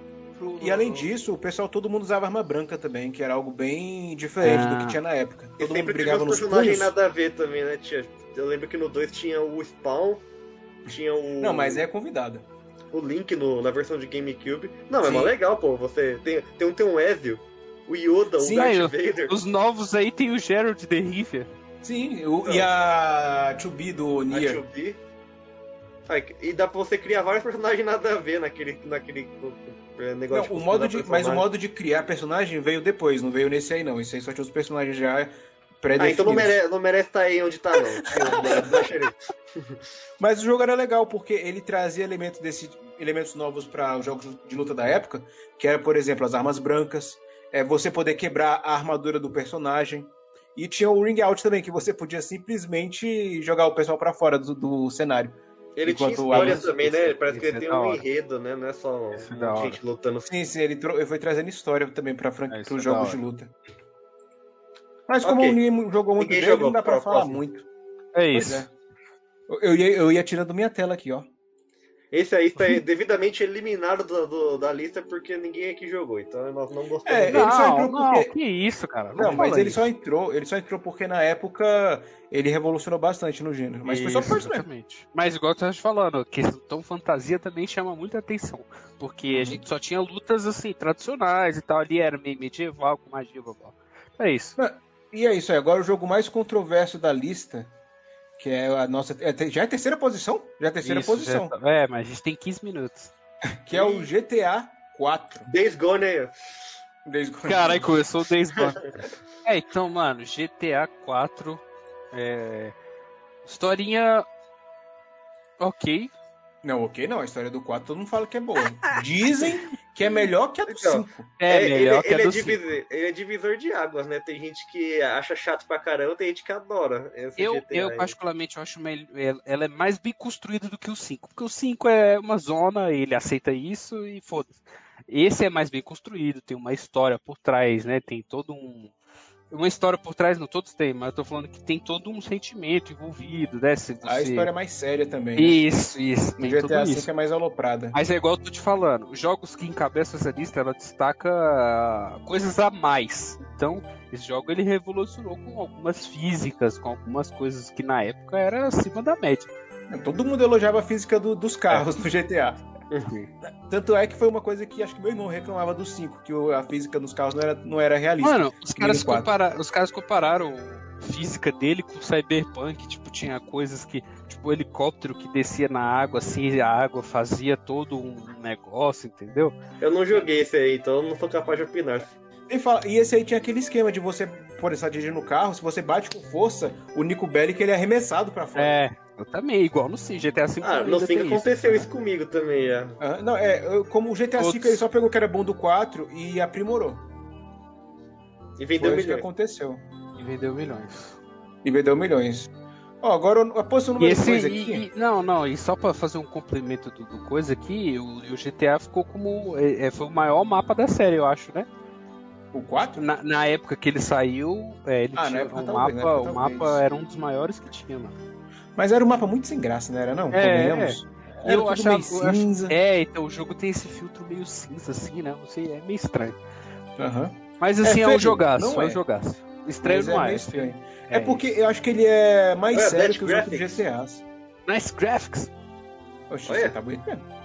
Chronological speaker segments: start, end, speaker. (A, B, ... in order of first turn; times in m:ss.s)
0:00.3-0:01.1 A
0:00.6-0:06.9 B
0:04.4-0:05.0 A
0:05.6-0:10.2 C
0:10.9-0:11.8 C
0:10.9-0:12.4 B
0:12.9-0:19.4 C
0:15.0-0:15.3 B
0:18.4-0:18.8 B
0:18.5-0:21.5 A
0:21.8-0:24.6 B
0:24.3-0:25.0 C
0:26.1-0:31.4 C
0:30.3-0:36.6 B
0:36.0-0:39.7 C
0:37.8-0:38.9 B
0:40.2-0:56.6 B
0:55.8-1:00.3 C
0:56.3-0:58.0 A
0:59.2-0:59.8 A
1:00.2-1:03.5 B
1:02.5-1:03.2 A
1:05.1-1:07.7 B
1:05.2-1:05.6 C
1:06.2-1:07.4 C
1:08.1-1:08.6 A
1:08.3-1:08.7 B
1:09.5-1:11.3 B
1:12.1-1:17.5 C
1:17.0-1:18.3 B
1:17.3-1:19.8 A
1:19.2-1:24.6 B
1:23.8-1:34.6 A
1:29.3-1:29.6 B
1:34.6-1:37.7 B
1:38.4-1:41.5 B
1:40.8-1:43.1 A
1:43.6-1:45.5 B
1:43.7-1:44.1 C
1:45.5-1:46.4 C
1:47.0-1:48.0 B
1:47.4-1:48.8 A
1:49.4-1:52.7 A
1:53.4-1:54.2 A
1:55.6-1:56.1 A
1:56.6-2:01.3 B
1:58.9-1:59.4 A
2:00.7-2:08.1 C
2:01.4-2:02.6 A
2:07.4-2:18.9 A
2:19.5-2:24.5 A
2:24.0-2:25.6 B
2:25.4-2:27.1 A
2:26.4-2:28.0 B
2:27.9-2:39.5 A
2:39.9-2:42.6 B
2:43.4-2:49.3 B
2:48.2-2:59.6 A
2:59.8-3:02.1 C
3:02.5-3:08.8 B
3:08.6-3:11.9 A
3:10.6-3:13.0 C
3:13.0-3:17.1 B
3:14.4-3:14.8 A
3:18.6-3:19.2 C
3:18.8-3:19.8 B
3:20.2-3:21.2 A
3:21.6-3:22.5 B
3:23.0-3:24.9 B
3:24.0-3:31.7 A
3:32.5-3:33.0 B
3:33.0-3:38.2 A
3:35.1-3:36.8 B
3:38.8-3:42.8 B
3:40.3-3:46.4 A
3:47.0-3:49.0 B
3:47.6-3:51.6 A
3:49.8-3:54.2 B
3:52.7-3:53.8 C
3:54.7-3:55.5 A
3:56.3-3:57.2 B
3:56.5-3:56.7 C